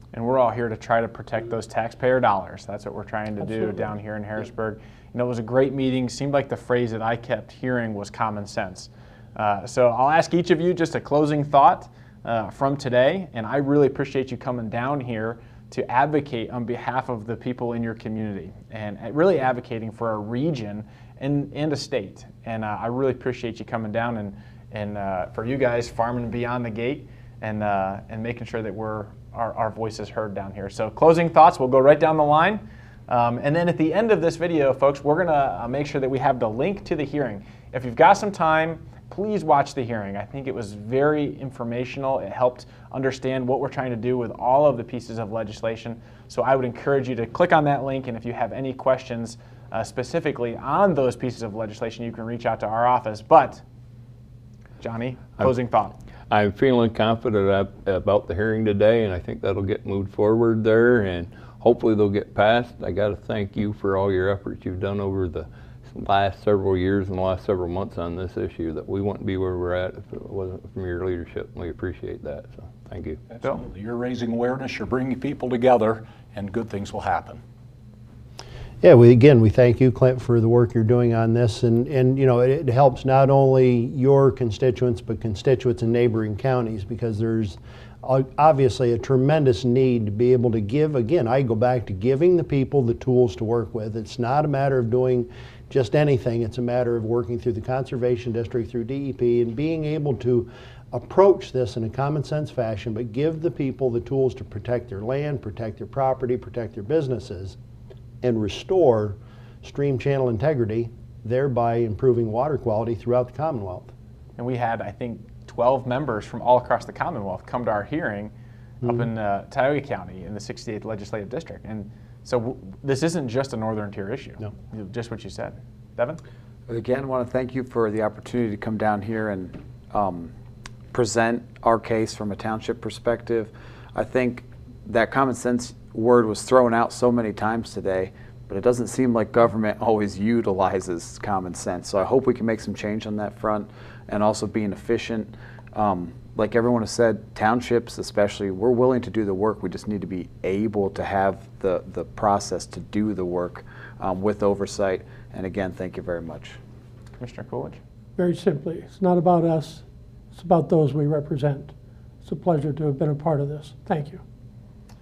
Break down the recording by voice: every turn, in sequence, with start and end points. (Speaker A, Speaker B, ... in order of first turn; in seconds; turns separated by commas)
Speaker A: 0.1-53.6, Speaker B: 3.4-3.9, Speaker A: 54.8-56.0, Speaker C: 56.3-73.2, Speaker D: 73.3-77.4, Speaker E: 78.8-107.6, Speaker E: 108.2-113.9, Speaker A: 114.4-118.3, Speaker E: 118.8-119.1, Speaker A: 118.8-126.2, Speaker F: 126.7-130.3, Speaker F: 130.9-156.6, Speaker A: 157.2-157.8, Speaker B: 158.2-164.2